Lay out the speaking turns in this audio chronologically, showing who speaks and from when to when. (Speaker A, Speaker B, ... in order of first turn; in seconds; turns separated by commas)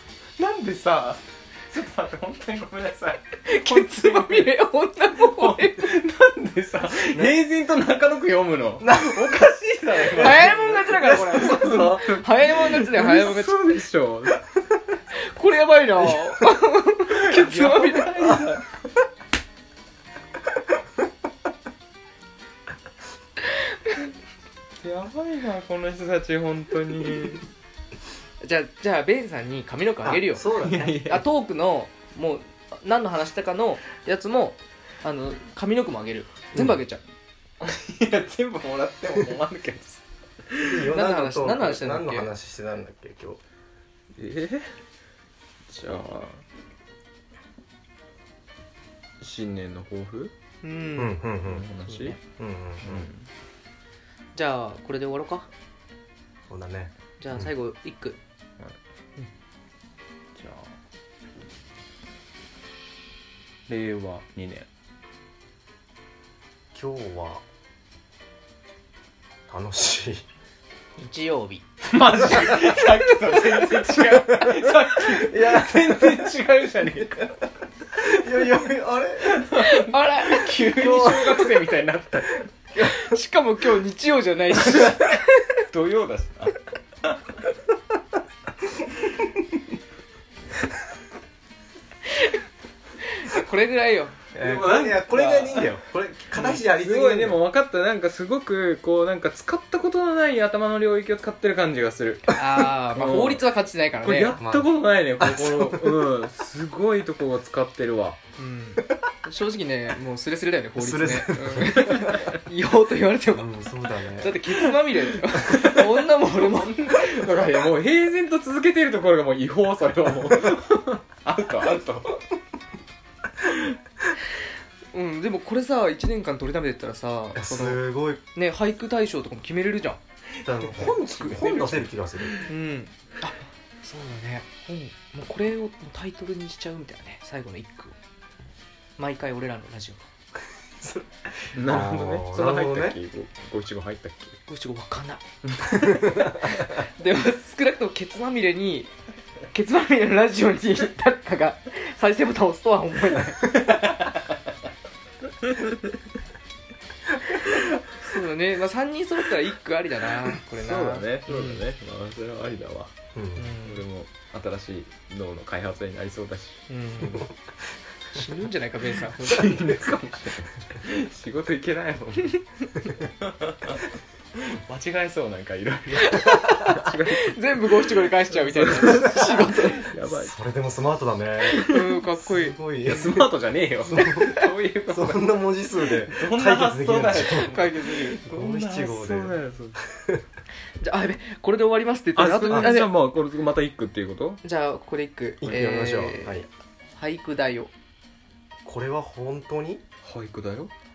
Speaker A: 0.4-4.5, Speaker B: 3.4-5.9, Speaker A: 5.1-14.4, Speaker C: 7.1-7.4, Speaker C: 8.8-9.5, Speaker B: 10.1-13.8, Speaker C: 10.2-11.5, Speaker B: 15.1-18.4, Speaker A: 17.1-18.6, Speaker A: 24.8-27.4, Speaker B: 28.4-37.0, Speaker C: 30.0-31.0, Speaker A: 30.4-31.3, Speaker A: 37.6-40.9, Speaker C: 40.7-43.4, Speaker B: 40.9-42.3, Speaker A: 44.1-44.7, Speaker A: 45.7-46.4, Speaker A: 49.2-50.3, Speaker B: 50.6-51.3, Speaker C: 51.0-51.7, Speaker A: 51.4-52.2, Speaker B: 51.9-52.2, Speaker C: 52.3-53.1, Speaker A: 52.8-53.3, Speaker B: 54.3-55.5, Speaker C: 56.5-57.5, Speaker B: 57.2-58.2, Speaker A: 60.4-60.7, Speaker A: 63.7-64.7, Speaker C: 66.7-67.4, Speaker C: 69.5-70.2, Speaker B: 71.0-71.6, Speaker A: 71.8-77.3, Speaker C: 75.1-76.3, Speaker C: 77.9-79.5, Speaker A: 79.2-82.5, Speaker B: 79.5-81.7, Speaker B: 82.8-85.6, Speaker A: 84.7-85.1, Speaker A: 85.7-87.4, Speaker B: 92.1-92.4, Speaker B: 93.0-94.2, Speaker C: 94.3-97.4, Speaker A: 94.3-95.7, Speaker A: 96.3-103.5, Speaker B: 102.3-104.4, Speaker A: 104.0-108.2, Speaker C: 104.4-106.0, Speaker B: 108.4-116.9, Speaker C: 110.8-112.3, Speaker C: 113.3-114.7, Speaker A: 115.3-122.2, Speaker B: 124.9-127.8, Speaker C: 127.3-128.2, Speaker B: 128.3-130.0, Speaker C: 130.4-132.4, Speaker A: 130.4-132.5, Speaker B: 132.5-137.9, Speaker B: 139.0-140.0, Speaker C: 140.8-143.0, Speaker A: 141.5-144.3, Speaker B: 144.5-145.2, Speaker A: 145.5-146.3, Speaker C: 145.8-146.3, Speaker B: 146.1-148.9, Speaker B: 149.5-153.6, Speaker A: 153.4-154.3, Speaker A: 155.4-155.8, Speaker B: 157.9-161.6, Speaker A: 160.4-162.9, Speaker C: 163.1-163.5, Speaker B: 163.3-163.8, Speaker A: 163.6-166.6, Speaker B: 166.7-167.3, Speaker C: 167.0-167.3, Speaker B: 168.1-169.7, Speaker A: 169.1-173.8, Speaker A: 174.5-180.3, Speaker B: 176.0-179.9, Speaker C: 180.0-183.3, Speaker A: 181.5-182.0, Speaker B: 181.6-182.6, Speaker A: 182.8-189.8, Speaker C: 183.8-184.4, Speaker B: 184.0-184.4, Speaker C: 184.9-187.7, Speaker B: 187.3-188.2, Speaker C: 188.2-190.2, Speaker B: 190.8-192.9, Speaker A: 192.2-194.4, Speaker C: 192.5-192.8, Speaker B: 194.4-196.4, Speaker C: 195.4-196.5, Speaker B: 196.9-197.7, Speaker C: 198.6-199.8, Speaker A: 200.0-200.7